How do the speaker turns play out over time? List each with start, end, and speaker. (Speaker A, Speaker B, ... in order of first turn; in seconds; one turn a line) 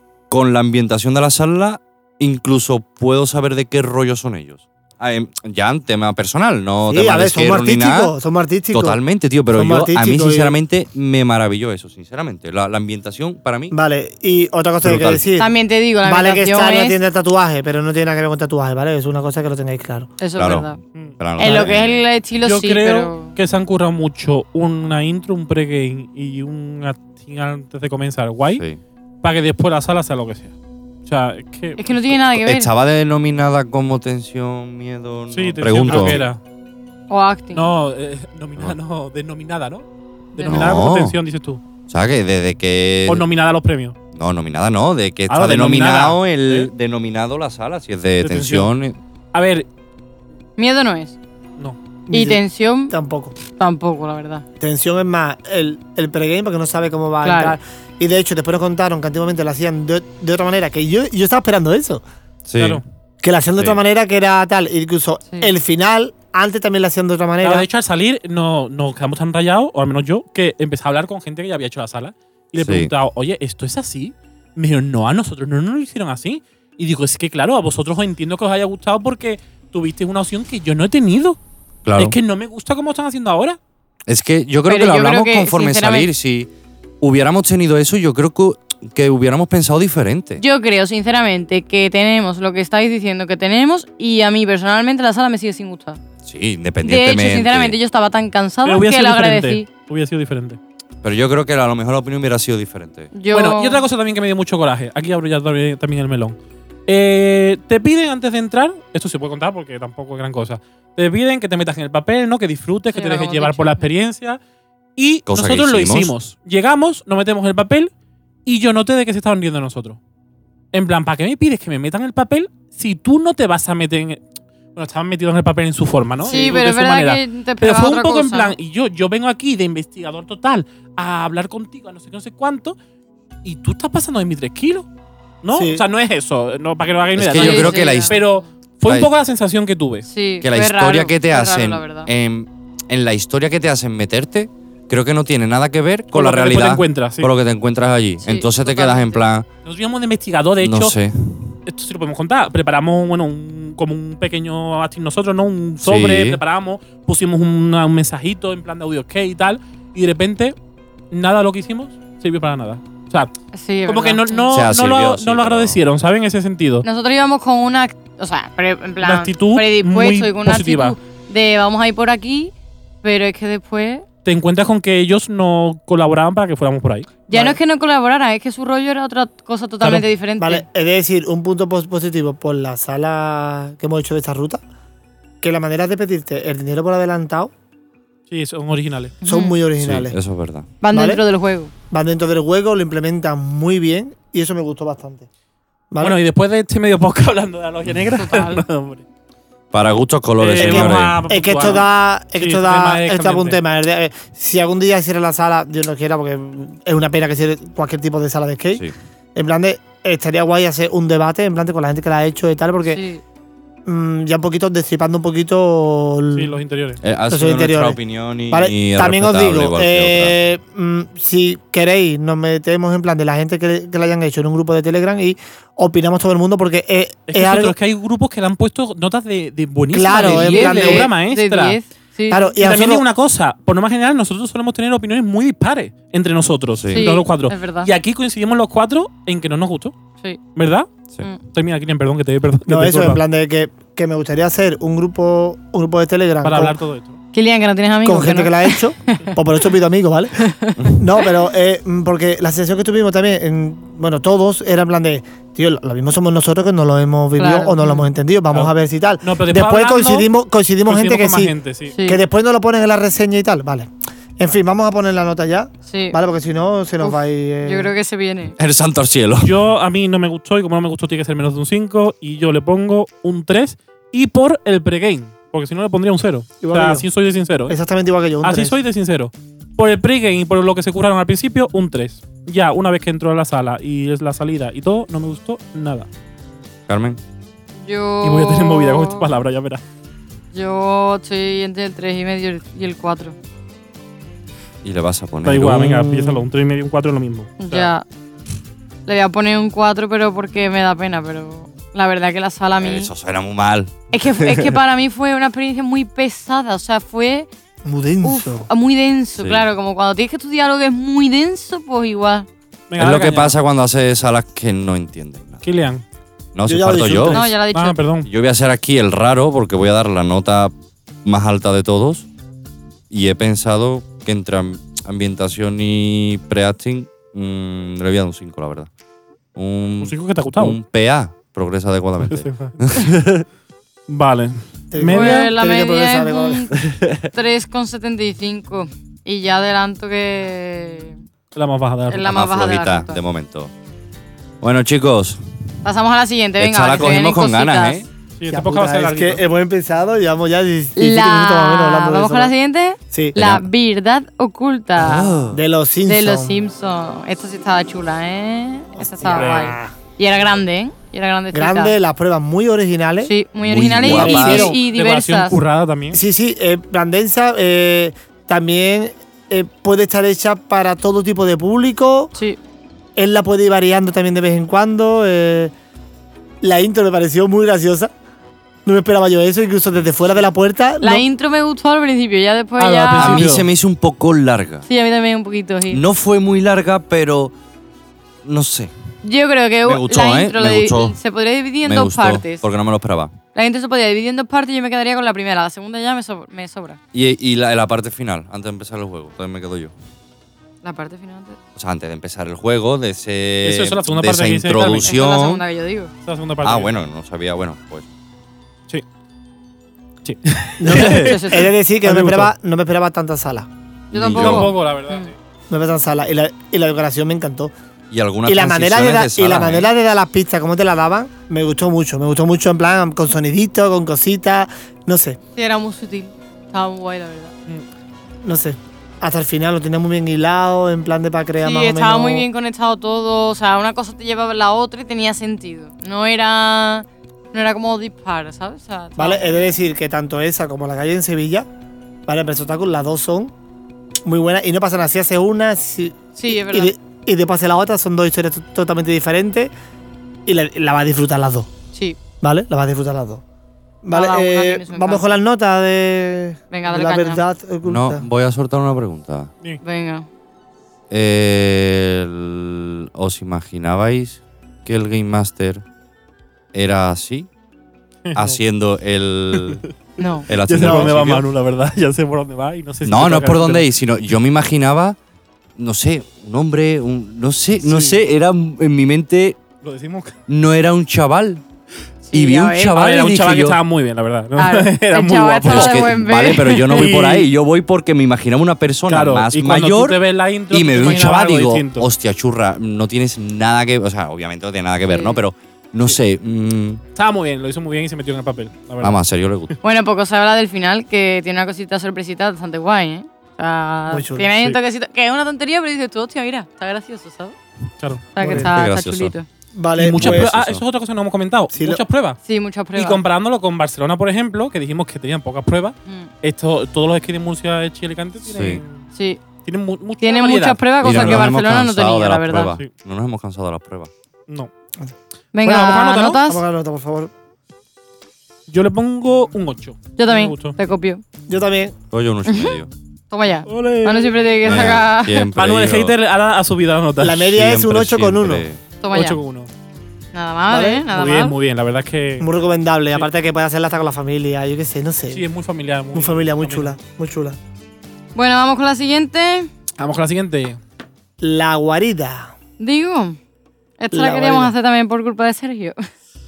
Speaker A: 0.3-8.1
Speaker B: 6.9-9.0
Speaker A: 8.7-13.7
Speaker B: 9.5-10.6
Speaker B: 13.7-15.5
Speaker A: 14.8-15.2
Speaker C: 15.4-17.0
Speaker B: 16.0-20.1
Speaker C: 20.2-20.8
Speaker A: 20.4-22.0
Speaker C: 21.4-23.4
Speaker D: 22.4-28.6
Speaker A: 28.5-28.8
Speaker D: 29.2-30.5
Speaker D: 31.1-32.2
Speaker C: 31.8-32.7
Speaker A: 32.3-36.3
Speaker D: 35.3-36.4
Speaker C: 37.1-37.7
Speaker D: 37.5-39.9
Speaker C: 40.4-40.7
Speaker D: 40.4-41.6
Speaker A: 40.5-41.2
Speaker A: 41.9-43.2
Speaker D: 43.1-44.0
Speaker A: 44.1-49.0
Speaker D: 45.3-46.7
Speaker D: 48.2-48.7
Speaker D: 49.3-49.7
Speaker C: 50.6-51.2
Speaker B: 52.1-53.4
Speaker C: 52.1-52.9
Speaker C: 53.5-54.5
Speaker B: 54.6-62.0
Speaker C: 57.2-57.6
Speaker A: 62.5-62.8
Speaker B: 63.2-67.7
Speaker D: 67.4-81.4
Speaker A: 72.6-72.9
Speaker A: 81.8-82.2
Speaker D: 82.0-83.6
Speaker A: 84.1-86.5
Speaker C: 84.7-86.1
Speaker A: 87.0-90.4
Speaker C: 90.4-96.0
Speaker A: 96.2-97.8
Speaker C: 96.8-99.7
Speaker D: 98.7-100.6
Speaker A: 101.0-103.1
Speaker C: 103.1-103.9
Speaker D: 103.3-114.4
Speaker C: 112.9-113.9
Speaker D: 115.0-117.9
Speaker A: 115.3-116.1
Speaker D: 118.5-120.0
Speaker D: 120.7-124.2
Speaker D: 124.8-132.8
Speaker C: 126.2-128.6
Speaker D: 133.4-134.9
Speaker D: 135.4-140.1
Speaker B: 135.5-135.8
Speaker A: 137.2-138.2
Speaker C: 137.3-138.4
Speaker C: 140.1-142.1
Speaker A: 140.4-149.5
Speaker D: 146.1-147.3
Speaker C: 148.2-149.2
Speaker D: 149.7-150.9
Speaker A: 150.6-151.5
Speaker D: 151.7-160.6
Speaker A: 155.8-156.4
Speaker D: 161.1-163.3
Speaker C: 163.5-164.4
Speaker D: 163.9-166.9
Speaker A: 164.5-165.8
Speaker C: 166.8-174.1
Speaker D: 169.0-171.0
Speaker D: 174.2-177.1
Speaker C: 177.3-180.7
Speaker B: 177.3-177.6
Speaker B: 180.4-184.6
Speaker B: 185.4-187.5
Speaker D: 188.3-189.2
Speaker C: 189.2-189.6
Speaker B: 189.2-190.2
Speaker A: 189.8-190.7
Speaker C: 190.8-191.7
Speaker B: 190.9-191.2
Speaker B: 191.9-195.3
Speaker B: 195.9-196.2
Speaker D: 196.0-199.0
Speaker C: 198.1-198.6
Speaker A: 199.7-201.2
Speaker D: 200.4-203.6
Speaker B: 200.6-213.0
Speaker C: 212.9-213.2
Speaker B: 213.8-216.6
Speaker D: 216.3-217.0
Speaker A: 217.0-220.4
Speaker B: 217.3-218.0
Speaker B: 218.5-227.8
Speaker D: 227.3-231.8
Speaker B: 229.9-231.1
Speaker C: 230.1-232.6
Speaker B: 232.3-233.1
Speaker D: 232.6-239.9
Speaker A: 236.8-237.1
Speaker C: 236.9-237.9
Speaker D: 240.6-240.9
Speaker D: 241.4-243.2
Speaker B: 242.7-246.8
Speaker D: 246.4-247.2
Speaker C: 247.3-249.3
Speaker B: 248.0-261.5
Speaker C: 250.4-251.0
Speaker C: 257.4-258.1
Speaker D: 258.5-260.3
Speaker D: 260.9-261.9
Speaker C: 261.9-262.2
Speaker B: 262.1-267.9
Speaker C: 265.9-266.2
Speaker C: 267.0-268.6
Speaker A: 268.6-269.6
Speaker D: 269.4-277.8
Speaker B: 276.6-277.1
Speaker B: 277.7-278.8
Speaker D: 278.4-286.1
Speaker A: 286.9-287.2
Speaker C: 287.8-289.3
Speaker D: 288.2-289.8
Speaker C: 290.5-293.4
Speaker A: 294.8-296.4
Speaker D: 295.4-297.9
Speaker C: 297.6-298.0
Speaker C: 299.1-303.1
Speaker A: 302.8-304.7
Speaker C: 304.1-307.5
Speaker B: 307.8-308.7
Speaker C: 308.2-312.5
Speaker A: 309.4-309.7
Speaker D: 312.9-313.6
Speaker A: 313.0-315.6
Speaker D: 315.6-316.0
Speaker A: 316.6-317.4
Speaker B: 316.7-317.4
Speaker D: 317.3-318.3
Speaker C: 317.3-318.0
Speaker A: 318.2-320.7
Speaker A: 321.2-322.3
Speaker A: 323.1-328.9
Speaker A: 329.6-333.2
Speaker D: 330.0-330.8
Speaker D: 332.2-333.4
Speaker D: 334.1-335.5
Speaker B: 334.9-336.7
Speaker C: 335.1-336.8
Speaker A: 336.8-337.3
Speaker C: 337.3-341.1
Speaker D: 341.5-342.3
Speaker C: 342.1-343.2
Speaker A: 342.3-343.7
Speaker A: 344.6-345.4
Speaker C: 345.8-348.1
Speaker A: 346.6-348.1
Speaker D: 348.4-349.4
Speaker B: 348.5-352.5
Speaker C: 351.0-355.4
Speaker B: 353.1-353.4
Speaker A: 353.4-353.7
Speaker A: 355.0-355.6
Speaker B: 355.5-356.6
Speaker C: 356.1-362.0
Speaker B: 359.0-359.9
Speaker D: 359.3-359.7
Speaker B: 361.5-363.3
Speaker C: 363.2-365.6
Speaker A: 363.6-364.7
Speaker B: 364.0-364.8
Speaker D: 364.1-366.2
Speaker B: 366.1-372.3
Speaker B: 373.2-375.7
Speaker B: 376.6-378.1
Speaker B: 378.9-381.2
Speaker C: 381.0-383.4
Speaker D: 382.8-383.7
Speaker A: 383.2-384.9
Speaker C: 384.9-386.0
Speaker A: 385.9-387.5
Speaker A: 388.4-388.9
Speaker C: 389.2-392.6
Speaker A: 389.9-391.2
Speaker A: 391.8-393.4
Speaker C: 393.6-397.0
Speaker A: 397.1-399.9
Speaker C: 400.8-401.6
Speaker A: 401.8-405.6
Speaker D: 403.6-405.1
Speaker C: 405.0-406.1
Speaker D: 406.2-406.9
Speaker A: 406.6-408.1
Speaker D: 410.2-412.5
Speaker B: 410.8-413.7
Speaker C: 411.0-411.7
Speaker A: 414.1-414.7
Speaker C: 414.1-415.3
Speaker D: 414.4-415.3
Speaker B: 415.7-417.7
Speaker A: 418.1-419.9
Speaker B: 418.4-425.4
Speaker C: 425.6-427.5
Speaker B: 428.4-432.5
Speaker C: 431.6-439.7
Speaker B: 439.2-441.7
Speaker B: 442.3-443.5
Speaker B: 444.2-449.7
Speaker C: 446.4-446.9
Speaker B: 450.5-451.7
Speaker B: 452.4-453.4
Speaker B: 454.0-458.3
Speaker C: 454.1-455.2
Speaker C: 456.7-457.4
Speaker A: 457.9-459.5
Speaker C: 459.8-460.3
Speaker A: 461.1-465.8
Speaker A: 466.7-467.5
Speaker D: 468.3-468.6
Speaker A: 468.3-469.8
Speaker C: 470.2-470.5
Speaker A: 470.5-471.4
Speaker D: 470.5-473.9
Speaker B: 470.8-471.2
Speaker A: 473.1-475.2
Speaker A: 475.8-479.6
Speaker D: 477.8-478.2
Speaker D: 479.8-480.4
Speaker A: 480.5-481.6
Speaker C: 482.3-482.9
Speaker A: 482.3-483.8
Speaker D: 482.9-486.2
Speaker C: 484.6-487.0
Speaker A: 485.7-490.2
Speaker D: 486.9-487.5
Speaker D: 489.1-492.1
Speaker A: 490.7-497.0
Speaker C: 495.1-495.4
Speaker D: 497.1-499.2
Speaker A: 499.0-499.8
Speaker C: 499.8-507.6
Speaker B: 504.1-504.5
Speaker D: 508.0-508.3
Speaker C: 508.3-509.5
Speaker B: 508.4-508.7
Speaker A: 508.4-509.3
Speaker B: 509.8-510.5
Speaker D: 510.0-512.4
Speaker A: 510.1-510.8
Speaker B: 511.7-512.0
Speaker C: 512.5-513.2
Speaker D: 513.0-519.0
Speaker A: 518.5-518.8
Speaker C: 519.1-519.4
Speaker D: 519.6-521.5
Speaker C: 520.2-522.7
Speaker A: 521.0-524.1
Speaker C: 525.5-526.6
Speaker D: 525.6-526.4
Speaker B: 526.5-527.3
Speaker D: 528.7-530.8
Speaker C: 530.2-531.2
Speaker B: 531.5-532.0
Speaker A: 532.1-532.9
Speaker C: 532.5-532.8
Speaker C: 533.3-535.5
Speaker D: 533.7-535.0
Speaker A: 534.6-536.1
Speaker D: 535.5-537.5
Speaker B: 537.2-538.7
Speaker A: 537.5-538.8
Speaker C: 539.0-539.4
Speaker D: 539.1-539.7
Speaker C: 540.3-541.5
Speaker B: 540.7-541.0
Speaker D: 541.1-542.5
Speaker B: 542.4-545.5
Speaker D: 545.3-547.0
Speaker B: 546.1-547.6
Speaker C: 548.4-549.7
Speaker D: 550.0-550.8
Speaker B: 551.4-552.5
Speaker C: 552.8-553.4
Speaker C: 554.0-556.1
Speaker B: 554.1-554.7